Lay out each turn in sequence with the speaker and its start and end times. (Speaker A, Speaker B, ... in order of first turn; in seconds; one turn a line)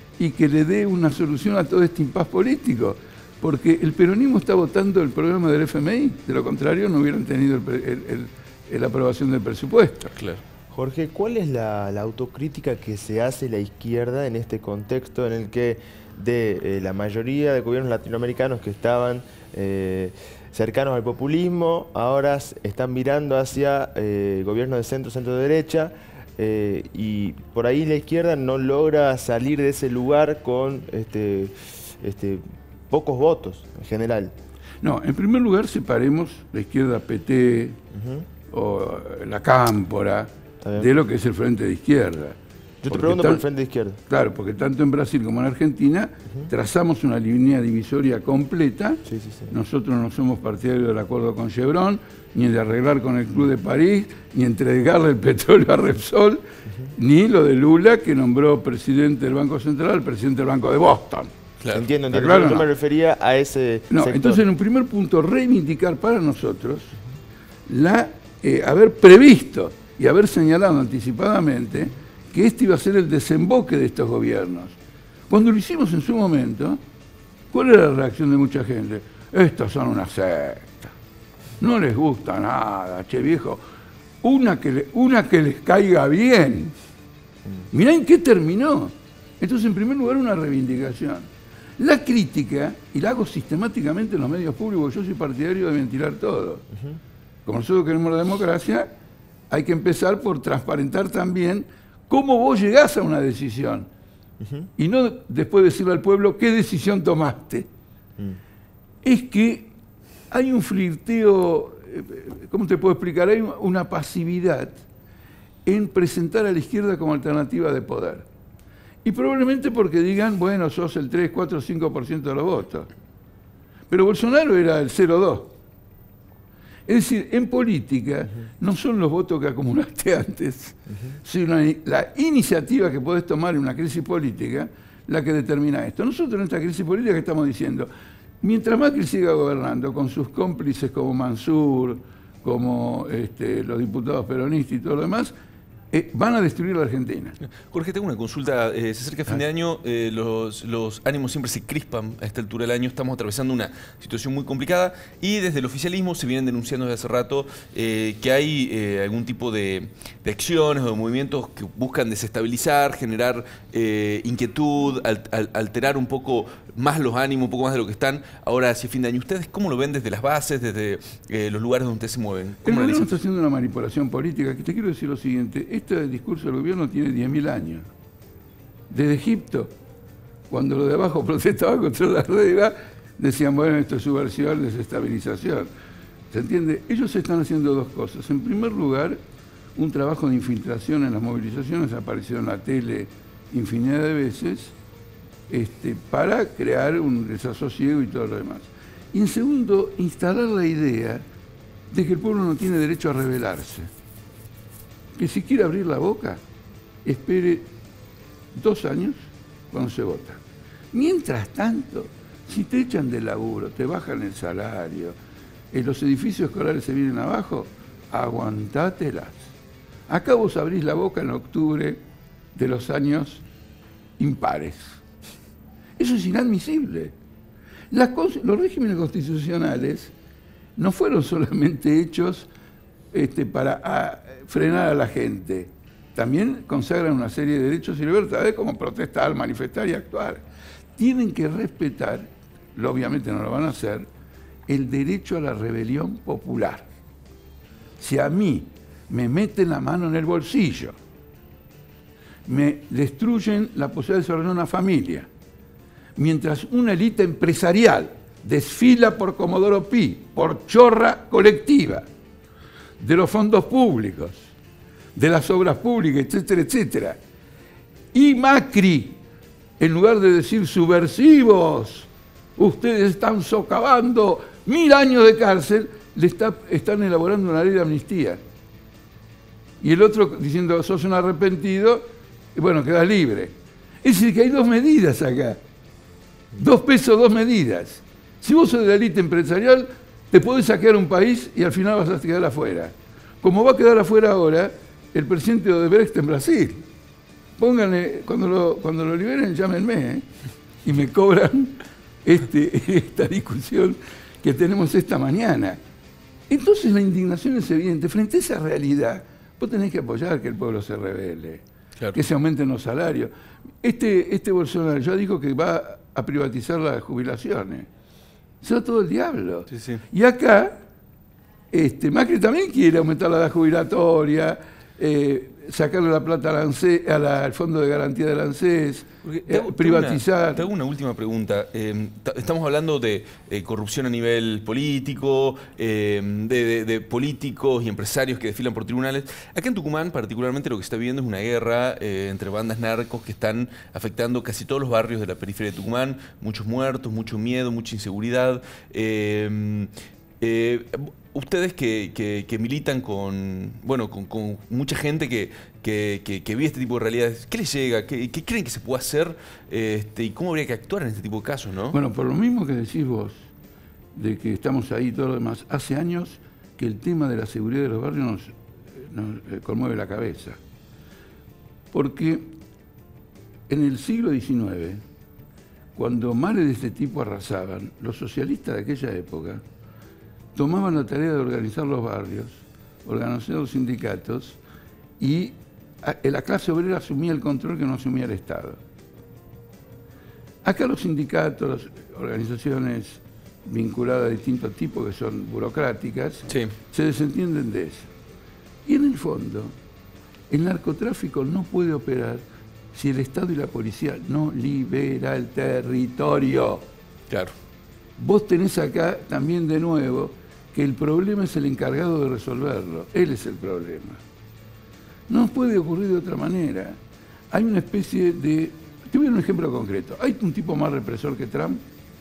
Speaker A: 0.2-10.1
Speaker B: 10.1-10.4
Speaker C: 10.7-34.3
Speaker A: 34.8-37.8
Speaker C: 37.9-38.3
Speaker A: 38.5-42.4
Speaker C: 40.6-40.9
Speaker C: 42.8-44.0
Speaker A: 42.9-43.4
Speaker A: 44.1-56.4
Speaker C: 49.0-49.5
Speaker A: 56.9-61.3
Speaker B: 61.6-61.9
Speaker C: 61.7-64.4
Speaker A: 62.1-62.7
Speaker A: 63.9-66.9
Speaker A: 67.7-74.7
Speaker A: 75.3-76.8
Speaker A: 77.5-80.9
Speaker A: 81.6-83.6
Speaker A: 84.2-86.7
Speaker A: 87.7-96.6
Speaker A: 97.5-98.9
Speaker A: 99.5-103.9
Speaker C: 104.4-104.7
Speaker A: 104.8-107.7
Speaker A: 109.0-109.7
Speaker A: 110.3-114.7
Speaker A: 115.7-118.3
Speaker A: 119.0-122.9
Speaker A: 123.9-125.5
Speaker A: 126.9-137.9
Speaker A: 138.4-145.3
Speaker A: 145.9-147.4
Speaker B: 147.4-173.2
Speaker A: 172.6-177.9
Speaker A: 178.9-179.7
Speaker A: 180.5-185.7
Speaker A: 186.3-189.2
Speaker A: 189.8-194.7
Speaker A: 195.5-201.2
Speaker A: 201.9-203.9
Speaker A: 205.2-206.4
Speaker A: 207.0-207.7
Speaker A: 208.5-210.4
Speaker A: 210.9-215.2
Speaker A: 215.7-219.5
Speaker A: 220.1-222.0
Speaker A: 222.5-223.4
Speaker A: 224.2-225.0
Speaker A: 226.0-227.1
Speaker A: 227.9-230.1
Speaker A: 230.8-232.5
Speaker A: 233.1-240.4
Speaker A: 241.0-244.1
Speaker A: 244.7-246.9
Speaker A: 248.0-250.9
Speaker A: 252.4-255.3
Speaker A: 256.1-262.1
Speaker A: 263.0-264.5
Speaker A: 265.1-267.2
Speaker A: 268.1-269.2
Speaker A: 269.8-278.4
Speaker A: 279.8-285.6
Speaker A: 286.5-296.9
Speaker A: 297.6-300.2
Speaker A: 300.8-305.8
Speaker A: 306.5-311.6
Speaker A: 312.1-313.3
Speaker A: 313.8-317.9
Speaker A: 318.6-320.8
Speaker B: 319.7-320.0
Speaker A: 321.7-330.7
Speaker B: 329.2-349.9
Speaker B: 350.4-362.0
Speaker A: 361.9-363.5
Speaker A: 364.1-370.6
Speaker A: 371.9-372.6
Speaker A: 373.7-375.0
Speaker A: 375.9-379.6
Speaker A: 380.5-384.6
Speaker A: 385.2-388.8
Speaker A: 390.6-398.1
Speaker B: 396.5-396.8
Speaker A: 398.9-399.7
Speaker A: 400.5-402.4
Speaker A: 402.9-406.9
Speaker A: 408.2-414.2
Speaker A: 415.3-417.0
Speaker A: 417.5-421.8